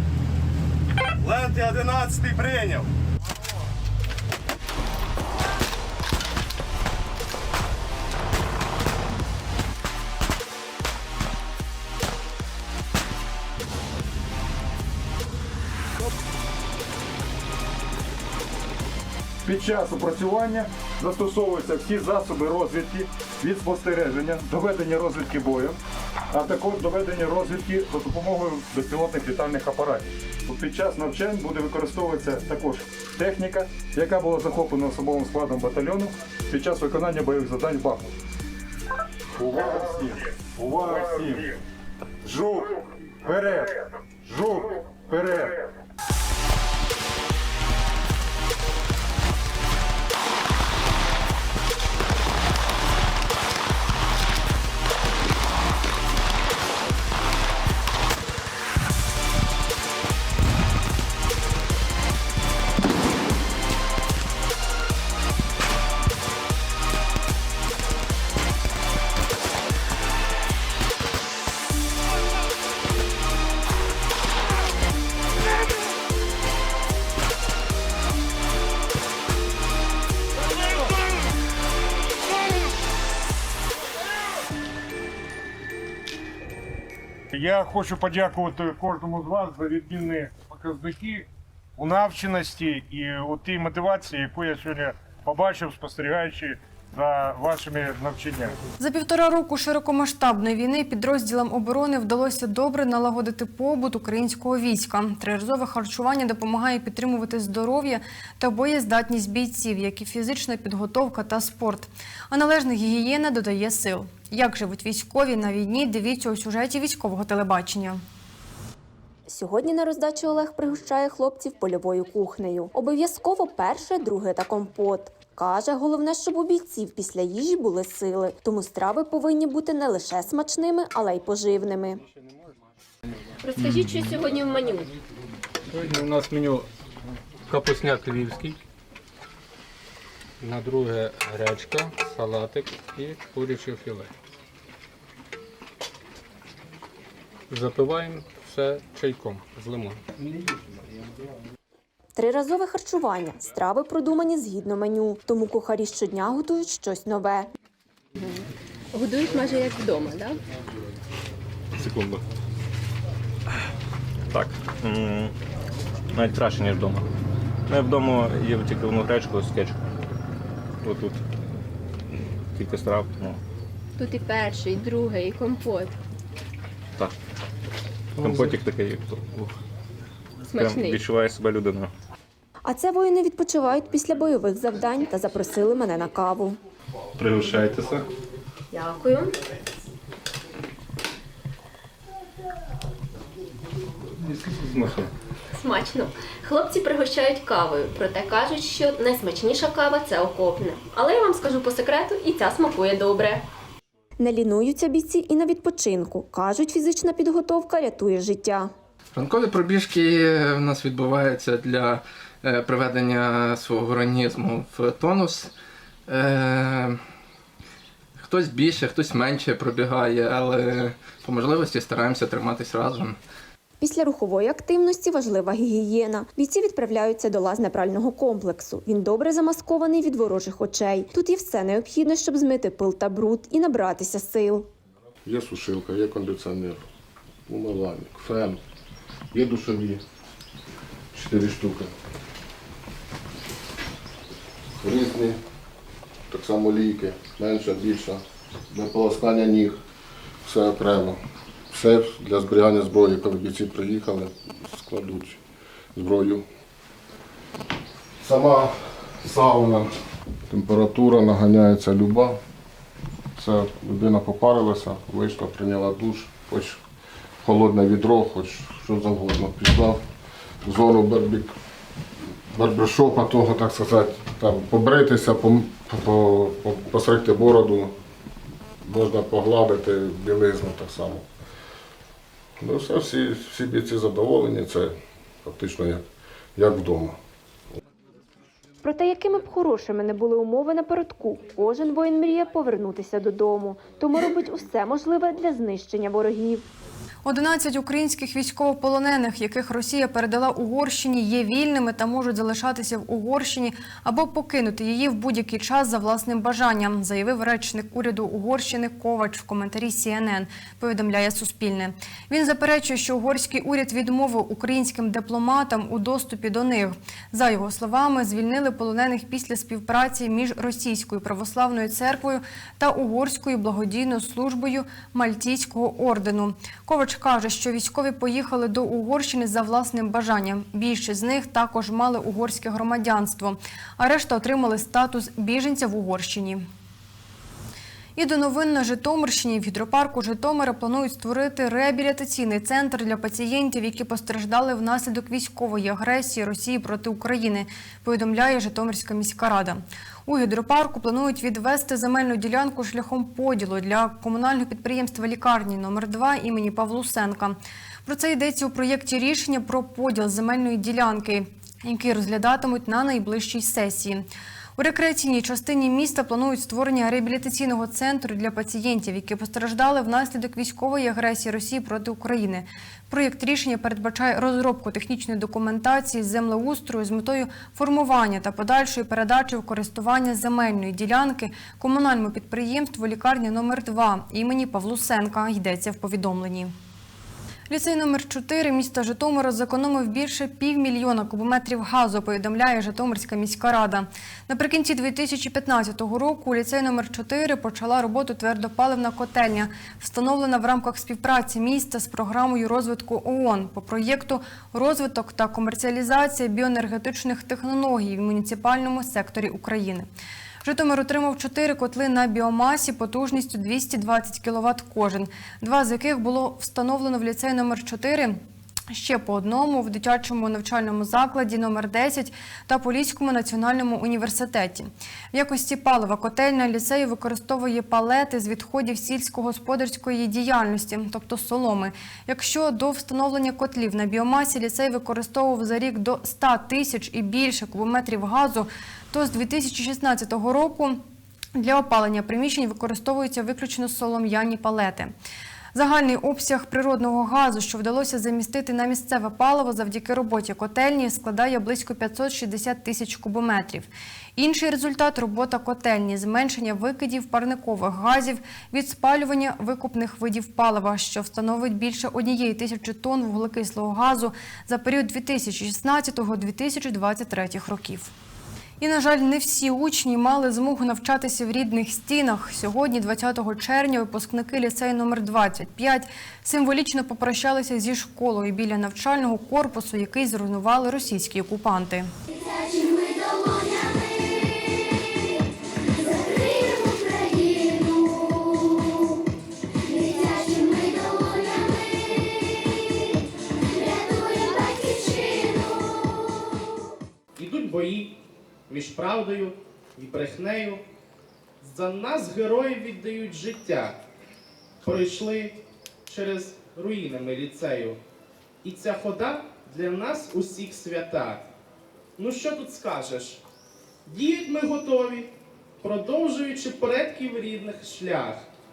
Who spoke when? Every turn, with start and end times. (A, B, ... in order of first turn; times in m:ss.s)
0:01.2-0:02.9 A
0:19.4-0:25.8 B
0:26.3-0:38.1 B
0:39.4-0:41.6 B
0:42.2-0:45.6 B
1:27.3-1:31.3 C
1:31.8-1:38.6 C
1:38.8-1:58.0 D
1:59.3-2:12.0 E
2:13.4-2:14.9 F
2:15.7-2:16.7 G
2:17.5-2:18.6 G
2:20.4-2:24.1 G
2:27.5-2:30.0 G
2:32.2-2:37.5 E
2:38.2-2:40.4 F
2:41.8-2:42.2 H
2:44.3-2:45.3 H
2:46.1-2:47.1 H
2:47.7-2:49.8 H
2:50.8-2:51.2 H
2:52.5-2:53.4 H
2:54.0-2:56.0 F
2:58.2-2:59.6 H
3:00.5-3:01.0 F
3:00.5-3:01.9 H
3:02.6-3:06.6 E
3:07.2-3:08.1 H
3:08.7-3:09.4 F
3:14.3-3:15.1 H
3:15.5-3:23.5 F
3:24.2-3:28.7 E
3:29.1-3:35.5 I
3:36.1-3:37.1 I
3:38.2-3:43.2 I
3:43.8-3:54.7 E
3:55.2-3:56.8 J
3:57.5-3:58.6 J
3:59.3-4:00.0 J
4:01.1-4:01.9 J
4:04.8-4:05.4 J
4:06.3-4:09.8 J
4:10.4-4:11.2 J
4:11.7-4:15.4 J
4:16.0-4:16.4 J
4:18.2-4:19.9 J
4:20.5-4:22.4 J
4:23.4-4:26.8 J
4:27.4-4:30.0 J
4:30.6-4:31.5 J
4:32.5-4:37.9 J
4:38.8-4:41.2 J
4:42.6-4:46.0 J
4:46.6-4:47.2 J
4:48.8-4:56.6 E
4:57.2-5:36.6 D
5:38.2-6:04.2 D
6:04.8-6:26.7 D
6:27.7-6:50.1 D
6:50.6-6:58.4 D
6:58.9-7:21.0 D
7:21.6-7:25.1 D
7:25.7-7:48.1 D
7:48.8-8:02.1 D
8:17.4-8:18.1 A
8:18.7-8:20.8 A
8:21.6-8:24.0 A
8:24.8-8:28.0 A
8:28.6-8:31.5 A
8:32.2-8:33.4 A
8:34.1-8:38.5 A